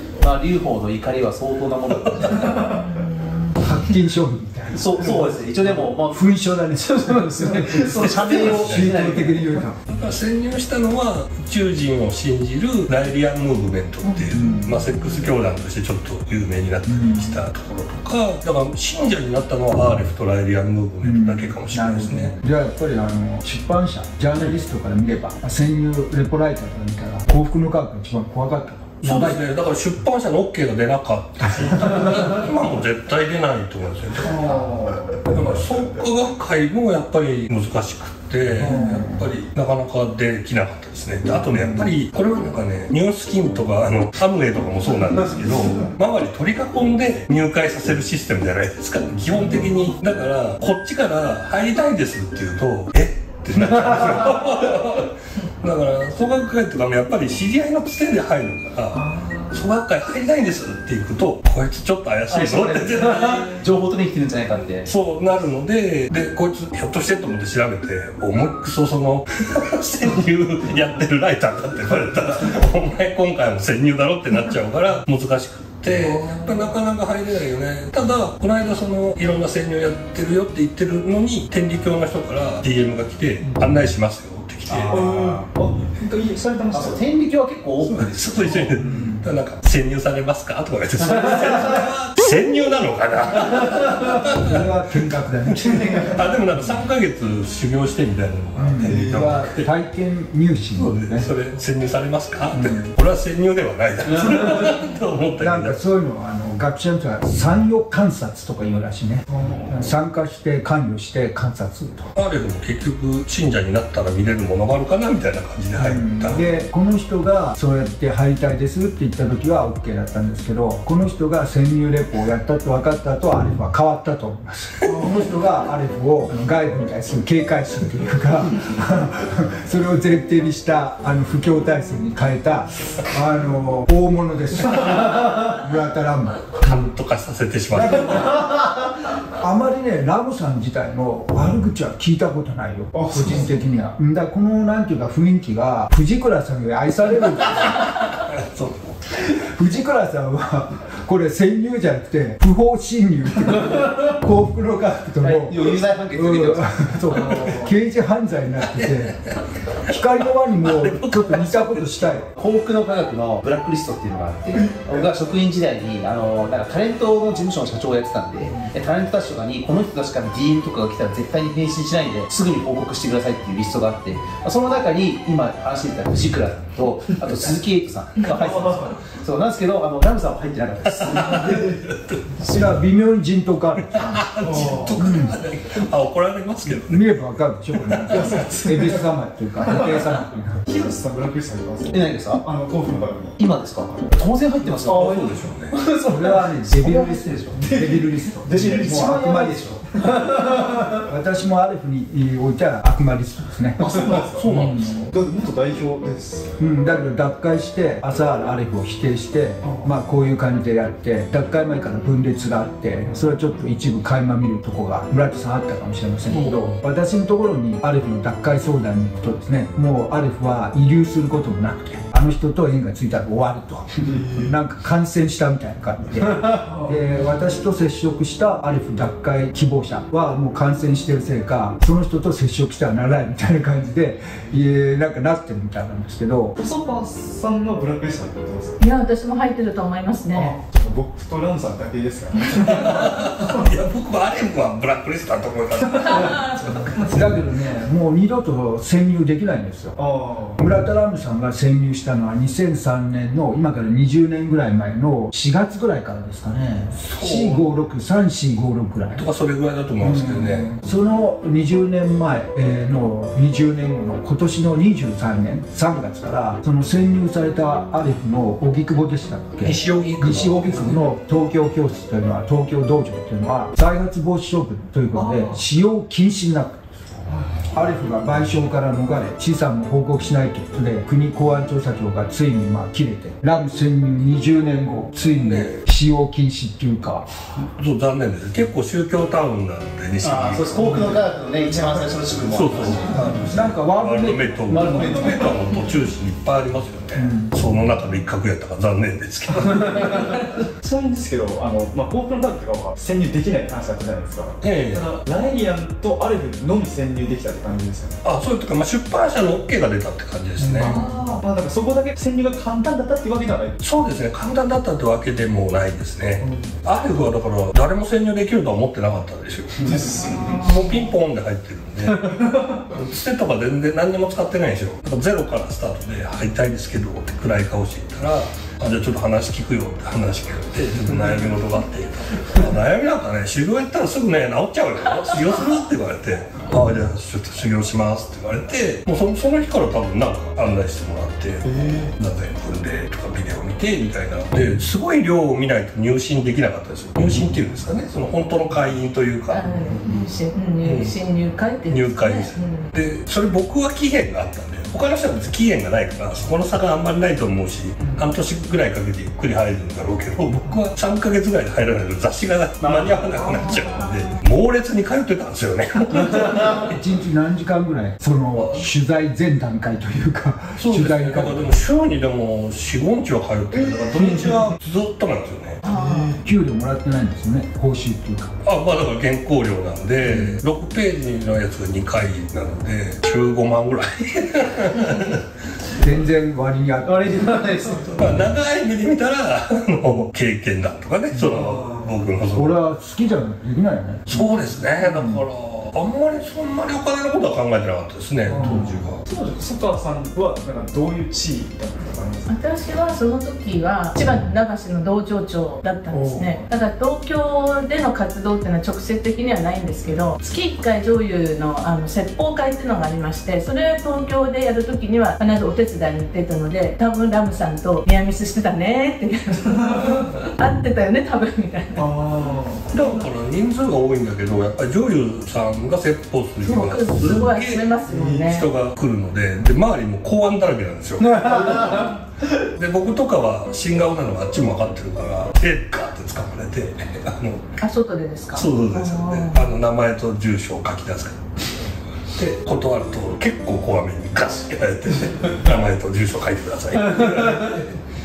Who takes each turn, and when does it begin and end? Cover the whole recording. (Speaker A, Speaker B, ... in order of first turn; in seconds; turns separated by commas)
Speaker A: 0.2-2.6, Speaker B: 2.3-2.8, Speaker C: 2.6-3.5, Speaker D: 3.6-9.8, Speaker A: 4.7-6.2, Speaker A: 6.8-9.6, Speaker E: 8.1-8.9, Speaker E: 9.9-22.3, Speaker C: 14.0-15.2, Speaker D: 14.3-14.9, Speaker D: 16.9-17.4, Speaker D: 21.0-29.4, Speaker E: 29.0-34.6, Speaker D: 31.4-32.3, Speaker B: 34.2-35.5, Speaker E: 35.2-63.6, Speaker B: 38.6-39.0, Speaker D: 38.6-39.2, Speaker B: 59.0-59.5, Speaker A: 62.3-64.9, Speaker E: 64.8-85.1, Speaker B: 75.9-76.7, Speaker A: 84.7-85.5, Speaker B: 84.9-87.0, Speaker A: 86.7-88.6, Speaker E: 87.8-94.7, Speaker B: 88.5-89.1, Speaker D: 88.8-89.2, Speaker D: 94.1-96.7, Speaker E: 96.0-99.7, Speaker D: 98.5-101.3, Speaker B: 98.8-99.4, Speaker E: 100.8-105.8, Speaker D: 102.5-102.9, Speaker D: 105.4-112.1, Speaker B: 109.3-109.8, Speaker E: 112.2-116.4, Speaker D: 115.8-136.8, Speaker B: 124.9-125.2, Speaker E: 136.6-138.4, Speaker D: 137.7-138.5, Speaker D: 139.3-147.8, Speaker B: 142.9-143.6, Speaker E: 148.1-149.3, Speaker D: 149.3-159.2, Speaker A: 155.2-157.3, Speaker B: 157.3-157.7, Speaker E: 158.8-159.9, Speaker D: 159.8-162.3, Speaker E: 160.5-162.2, Speaker A: 162.3-181.7, Speaker D: 168.4-168.7, Speaker B: 178.2-178.9, Speaker E: 180.9-182.4, Speaker B: 181.3-181.8, Speaker A: 182.4-182.7, Speaker D: 182.4-184.2, Speaker E: 183.9-187.2, Speaker B: 184.4-185.0, Speaker D: 184.9-185.4, Speaker D: 186.8-190.7, Speaker E: 187.7-188.4, Speaker B: 188.1-189.1, Speaker B: 189.6-190.1, Speaker B: 190.7-193.4, Speaker A: 191.9-192.4, Speaker A: 193.4-197.6, Speaker E: 194.8-195.7, Speaker B: 194.9-195.4, Speaker D: 196.1-199.8, Speaker B: 197.6-199.5, Speaker A: 198.5-200.8, Speaker D: 201.0-205.1, Speaker B: 203.8-206.6, Speaker E: 204.3-205.0, Speaker D: 206.6-236.6, Speaker B: 209.6-209.9, Speaker E: 216.3-216.7, Speaker B: 224.0-224.5, Speaker B: 226.6-227.1, Speaker B: 236.6-238.8, Speaker C: 238.8-240.6, Speaker B: 240.3-243.7, Speaker E: 242.7-246.9, Speaker B: 245.9-247.4, Speaker D: 247.1-249.9, Speaker B: 249.9-250.6, Speaker D: 250.6-259.2, Speaker E: 257.0-257.6, Speaker E: 259.1-260.7, Speaker D: 260.0-276.9, Speaker E: 269.6-271.1, Speaker B: 275.1-275.6, Speaker B: 277.3-277.8, Speaker D: 277.7-287.3, Speaker E: 285.3-285.8, Speaker E: 287.6-291.0, Speaker A: 290.2-293.4, Speaker B: 290.8-292.1, Speaker E: 292.5-300.5, Speaker D: 293.1-295.2, Speaker A: 294.7-295.4, Speaker B: 294.8-295.5, Speaker D: 297.1-297.5, Speaker B: 299.6-308.2, Speaker E: 304.6-305.1, Speaker E: 308.2-310.9, Speaker B: 310.6-313.8, Speaker C: 310.8-311.2, Speaker E: 313.8-349.6, Speaker B: 316.4-316.7, Speaker B: 319.8-320.7, Speaker C: 320.3-321.1, Speaker B: 322.3-322.9, Speaker B: 331.1-331.4, Speaker B: 341.6-342.1, Speaker C: 349.5-352.9, Speaker B: 349.6-350.2, Speaker E: 350.8-351.1, Speaker E: 351.9-366.9, Speaker B: 362.8-364.1, Speaker C: 363.9-364.4, Speaker D: 366.6-371.7, Speaker E: 368.6-368.8, Speaker E: 370.8-375.8, Speaker B: 373.7-374.6, Speaker C: 375.8-376.4, Speaker B: 375.9-376.4, Speaker D: 376.4-378.5, Speaker E: 378.6-385.4, Speaker D: 380.2-380.6, Speaker D: 386.0-387.9, Speaker A: 387.0-388.1, Speaker E: 388.1-392.8, Speaker D: 391.3-391.6, Speaker B: 391.5-392.1, Speaker D: 392.5-394.3, Speaker E: 394.3-399.2, Speaker D: 395.0-395.4, Speaker B: 398.5-402.5, Speaker D: 398.5-398.9, Speaker C: 402.5-422.1, Speaker D: 406.1-406.4, Speaker B: 406.1-406.6, Speaker B: 419.8-420.2, Speaker B: 421.9-422.9, Speaker E: 422.9-437.7, Speaker C: 426.6-428.7, Speaker B: 428.1-428.4, Speaker A: 431.4-432.1, Speaker C: 437.8-439.7, Speaker E: 438.5-441.5, Speaker E: 442.3-448.0